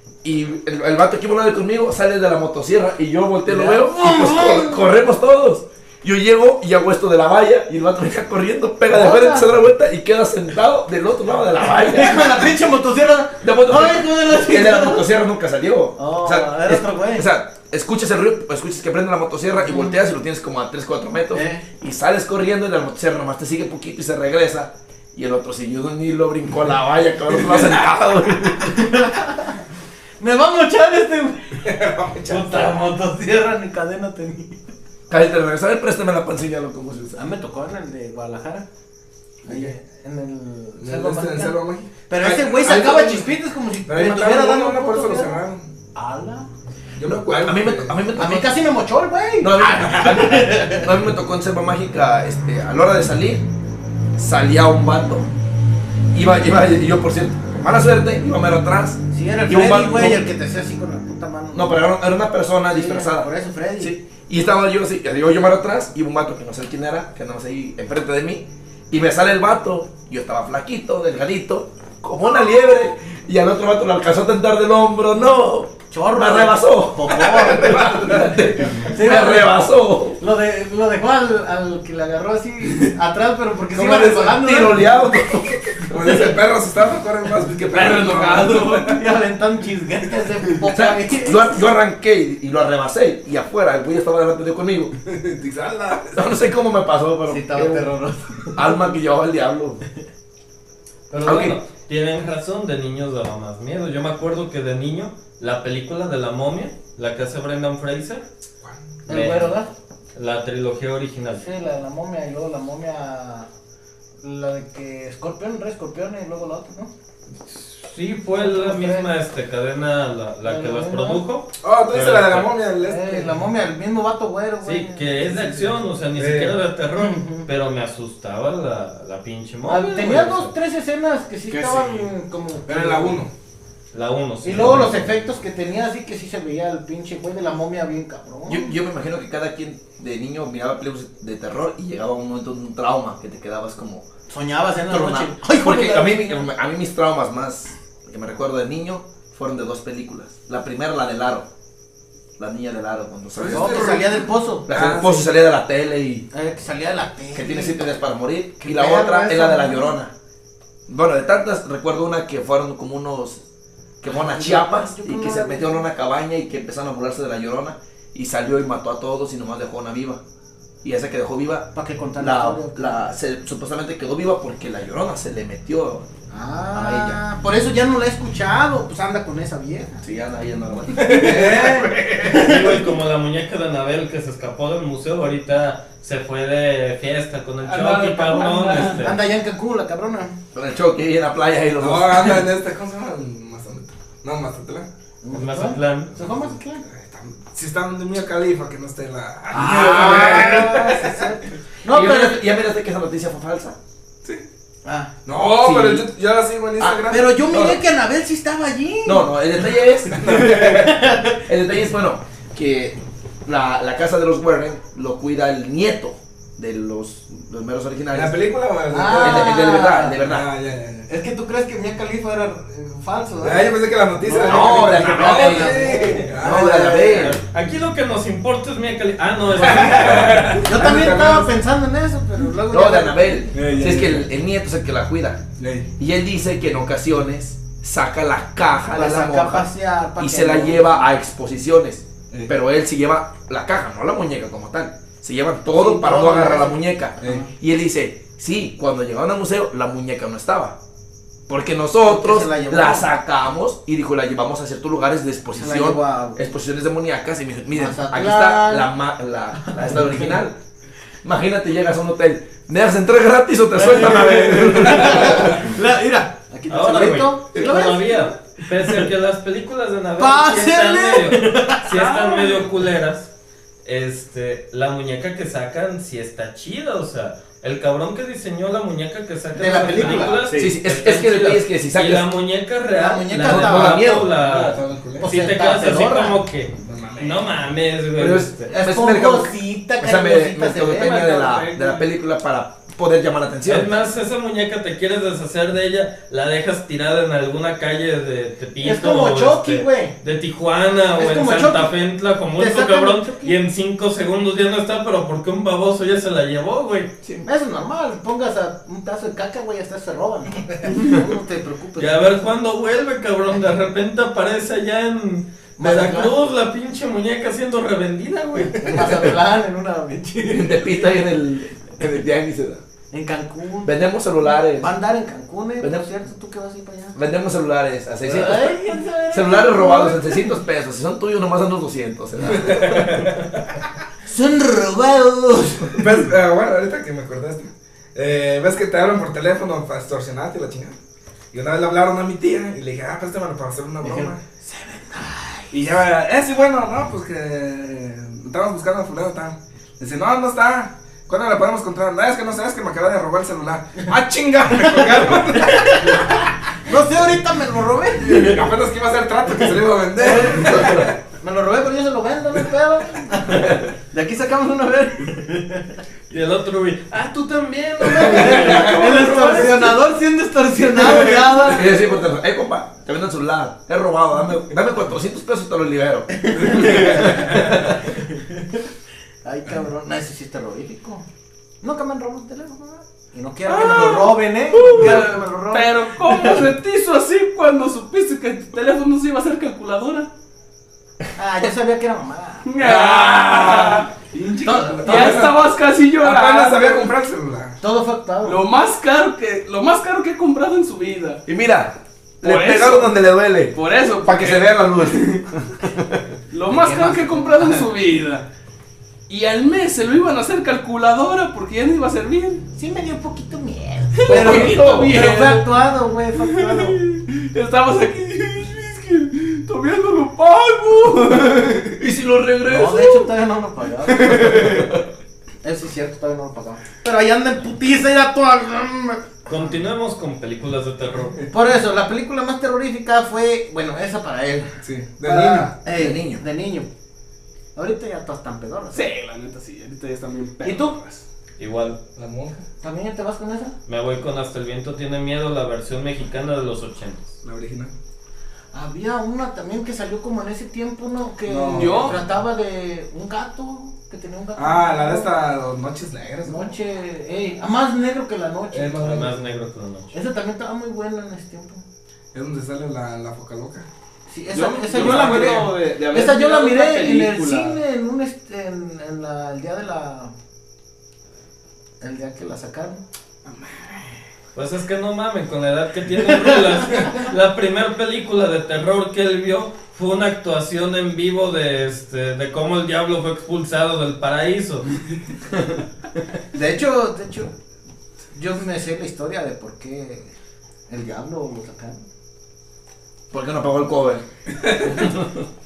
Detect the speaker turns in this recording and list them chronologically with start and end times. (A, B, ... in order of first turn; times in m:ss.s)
0:00.2-0:12.5 A
0:03.5-0:04.8 B
0:08.9-0:09.5 B
0:11.7-0:15.1 B
0:13.4-0:29.0 A
0:16.0-0:17.3 B
0:19.6-0:20.0 B
0:21.3-0:21.6 B
0:28.6-0:29.6 B
0:30.2-0:31.6 B
0:31.6-0:32.8 C
0:32.3-0:34.6 B
0:35.1-0:37.2 A
0:37.2-0:38.7 B
0:39.4-0:45.4 B
0:40.8-0:43.4 C
0:43.9-0:45.7 C
0:45.9-0:46.5 B
0:47.0-0:47.9 C
0:47.3-0:48.6 A
0:48.2-0:50.9 B
0:49.4-0:53.5 A
0:54.2-0:55.3 A
0:56.1-1:00.2 A
0:59.1-1:01.9 B
1:01.5-1:20.2 A
1:02.7-1:04.0 B
1:15.9-1:25.0 B
1:17.5-1:18.5 C
1:23.7-1:25.9 A
1:25.8-1:29.0 C
1:27.6-1:29.0 D
1:28.8-1:31.6 B
1:30.7-1:35.0 A
1:35.0-1:36.3 C
1:36.1-1:37.9 A
1:37.3-1:38.6 B
1:38.6-1:39.8 A
1:41.1-1:48.2 E
1:41.2-1:41.6 A
1:49.1-1:49.7 B
1:49.1-1:49.6 E
1:50.2-1:51.5 E
1:51.4-1:53.5 B
1:54.2-1:56.9 B
1:57.4-2:02.6 E
1:58.4-1:59.1 B
2:00.4-2:01.2 B
2:01.6-2:03.4 C
2:02.8-2:05.7 B
2:04.6-2:10.5 E
2:06.2-2:06.6 C
2:07.0-2:07.5 B
2:09.7-2:13.2 B
2:11.5-2:12.1 D
2:12.7-2:13.3 C
2:13.9-2:15.2 E
2:14.4-2:18.8 B
2:18.5-2:24.1 A
2:24.3-2:26.5 B
2:24.9-2:31.5 A
2:32.4-2:34.1 A
2:33.4-2:35.2 C
2:33.5-2:34.7 B
2:34.7-2:36.3 A
2:36.3-2:37.9 B
2:37.3-2:40.1 A
2:38.6-2:40.0 B
2:40.9-2:43.4 A
2:44.0-2:50.2 A
2:44.0-2:45.8 B
2:50.8-2:56.1 A
2:51.7-2:53.0 B
2:56.3-3:00.0 B
2:56.7-2:57.2 A
3:00.0-3:01.7 A
3:00.9-3:02.8 B
3:00.9-3:02.6 C
3:02.2-3:09.2 E
3:07.6-3:09.1 D
3:08.9-3:10.3 B
3:10.5-3:12.5 A
3:11.8-3:14.9 C
3:15.2-3:16.8 B
3:15.3-3:16.2 E
3:16.2-3:21.4 C
3:19.5-3:21.0 A
3:19.5-3:22.4 B
3:21.9-3:23.8 A
3:24.8-3:25.1 B
3:25.3-3:27.3 C
3:25.4-3:26.1 A
3:26.8-3:27.8 A
3:27.0-3:29.4 B
3:29.0-3:30.9 A
3:30.1-3:31.0 C
3:30.2-3:31.4 B
3:31.4-3:38.4 A
3:38.1-3:41.1 C
3:38.9-3:40.2 B
3:39.1-3:40.5 A
3:41.1-3:47.4 B
3:43.4-3:46.8 C
3:44.4-3:47.4 A
3:47.0-3:50.6 E
3:49.6-3:51.5 C
3:50.6-3:53.5 B
3:52.7-3:55.4 A
3:53.5-3:54.3 C
3:55.6-3:55.9 C
3:56.0-4:10.8 A
3:58.9-4:01.1 B
4:05.7-4:07.5 B
4:11.5-4:20.6 A
4:12.0-4:13.1 B
4:15.5-4:16.4 B
4:17.7-4:18.9 B
4:19.7-4:20.4 B
4:21.2-4:25.7 A
4:23.7-4:29.1 B
4:24.2-4:25.4 C
4:26.7-4:33.3 E
4:30.2-4:32.2 B
4:32.0-4:32.6 D
4:33.8-4:48.7 E
4:39.6-4:40.4 B
4:40.0-4:40.8 D
4:40.6-4:42.3 A
4:43.0-4:44.2 B
4:43.4-4:44.2 A
4:43.8-4:45.3 C
4:45.2-4:46.4 B
4:46.8-4:47.5 C
4:48.2-4:53.9 A
4:48.7-4:51.6 B
4:51.2-4:52.0 D
4:53.7-5:07.1 E
4:58.8-5:00.2 B
5:01.2-5:01.9 B
5:02.6-5:03.6 B
5:07.4-5:12.4 B
5:12.0-5:19.3 E
5:15.8-5:16.3 B
5:18.8-5:21.0 B
5:20.5-5:22.8 A
5:23.1-5:24.0 B
5:23.8-5:24.9 A
5:24.6-5:27.2 B
5:27.2-5:33.2 A
5:28.2-5:30.5 B
5:32.4-5:32.9 B
5:32.5-5:33.8 C
5:34.2-5:36.0 B
5:36.0-5:41.0 C
5:41.5-5:44.4 C
5:44.0-5:45.9 B
5:45.7-5:56.5 C
5:54.8-5:58.6 B
5:58.2-6:01.1 C
6:00.2-6:06.0 B
6:00.7-6:01.1 A
6:03.5-6:03.8 A
6:06.3-6:09.0 E
6:08.0-6:12.0 B
6:08.3-6:10.0 A
6:08.5-6:09.1 C
6:11.7-6:18.1 A
6:16.4-6:18.8 B
6:16.7-6:17.8 C
6:19.4-6:21.2 B
6:21.8-6:26.7 B
6:23.7-6:30.3 D
6:31.4-6:32.7 B
6:32.6-6:37.1 D
6:32.8-6:33.8 A
6:34.6-6:35.5 B
6:34.6-6:35.7 C
6:36.2-6:37.8 C
6:37.8-6:38.6 B
6:38.4-6:41.4 D
6:41.5-6:46.2 A
6:42.4-6:43.2 D
6:43.7-6:45.4 D
6:46.5-6:48.5 D
6:46.7-6:47.9 B
6:49.3-6:52.6 D
6:52.8-6:57.0 B
6:54.2-6:55.8 D
6:54.3-6:55.2 A
6:56.4-7:02.0 D
7:01.7-7:03.3 A
7:02.6-7:04.9 B
7:04.2-7:05.0 A
7:04.3-7:04.6 D
7:05.6-7:09.8 B
7:09.5-7:11.4 E
7:11.5-7:16.9 B
7:14.8-7:15.8 C
7:16.0-7:16.4 A
7:17.8-7:19.1 B
7:18.9-7:21.2 D
7:20.6-7:21.0 B
7:21.6-7:22.0 E
7:22.2-7:22.6 C
7:22.8-7:23.8 B
7:23.9-7:27.4 E
7:27.4-7:27.9 C
7:28.7-7:35.3 B
7:31.5-7:32.2 C
7:31.8-7:32.2 D
7:34.6-7:36.7 C
7:36.4-7:39.3 B
7:38.7-7:39.4 C
7:39.0-7:40.1 E
7:40.1-7:41.8 B
7:42.3-7:43.9 C
7:44.3-7:50.3 B
7:44.5-7:47.8 D
7:44.9-7:45.5 A
7:52.0-7:53.0 B
7:53.5-7:53.8 C
7:54.6-8:04.9 E
8:06.5-8:07.5 B
8:08.3-8:10.3 B
8:10.9-8:12.1 B
8:13.3-8:14.2 A
8:14.8-8:15.4 A